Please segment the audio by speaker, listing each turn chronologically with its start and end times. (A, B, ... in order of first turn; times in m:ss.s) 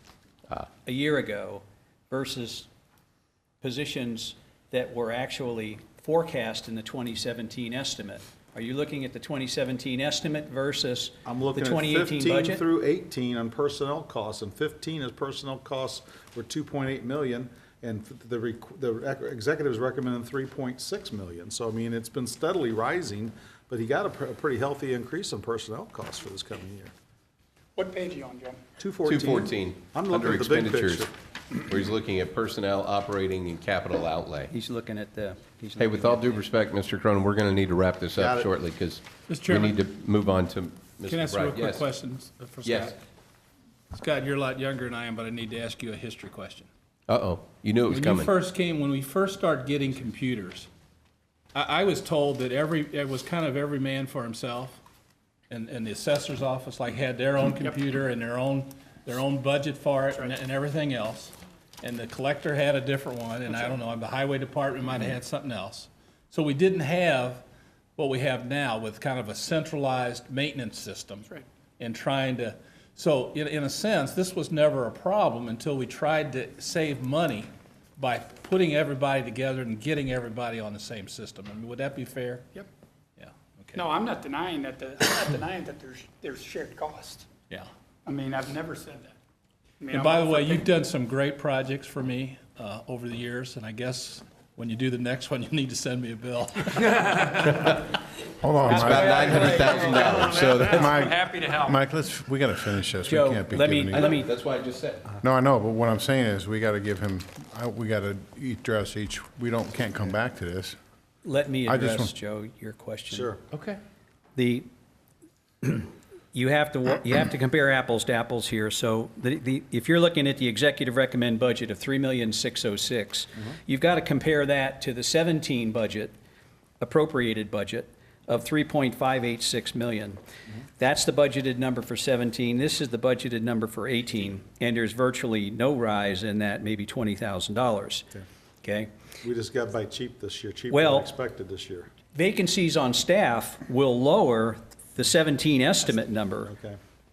0:00.8-0:02.7 A
0:03.6-0:12.6 A
0:11.2-0:26.9 B
0:27.8-0:28.6 C
0:28.8-0:31.1 B
0:29.0-0:31.1 D
0:31.7-0:34.5 D
0:34.5-0:36.4 A
0:35.8-0:41.8 D
0:38.2-0:38.5 B
0:39.3-0:39.8 E
0:41.0-0:43.0 E
0:42.6-0:43.0 D
0:43.9-0:46.7 E
0:47.1-0:48.3 D
0:47.9-0:50.7 E
0:51.5-0:54.8 E
0:55.5-1:07.4 E
1:08.0-1:22.6 E
1:23.2-1:23.9 E
1:23.8-1:27.3 C
1:28.0-1:29.2 C
1:29.8-1:30.6 C
1:29.9-1:37.7 E
1:38.4-1:44.2 F
1:38.7-1:40.9 D
1:38.8-1:41.7 C
1:39.0-1:39.8 A
1:43.0-1:44.3 A
1:44.0-1:45.1 D
1:45.2-1:50.8 F
1:51.2-1:53.3 A
1:51.7-1:52.1 F
1:53.1-1:53.4 B
1:53.5-1:53.8 D
1:54.4-1:54.7 A
1:55.6-2:06.1 A
2:06.8-2:10.2 A
2:10.8-2:18.1 A
2:18.6-2:18.9 A
2:19.2-2:21.9 B
2:20.7-2:21.1 A
2:22.1-2:26.5 A
2:25.8-2:26.8 B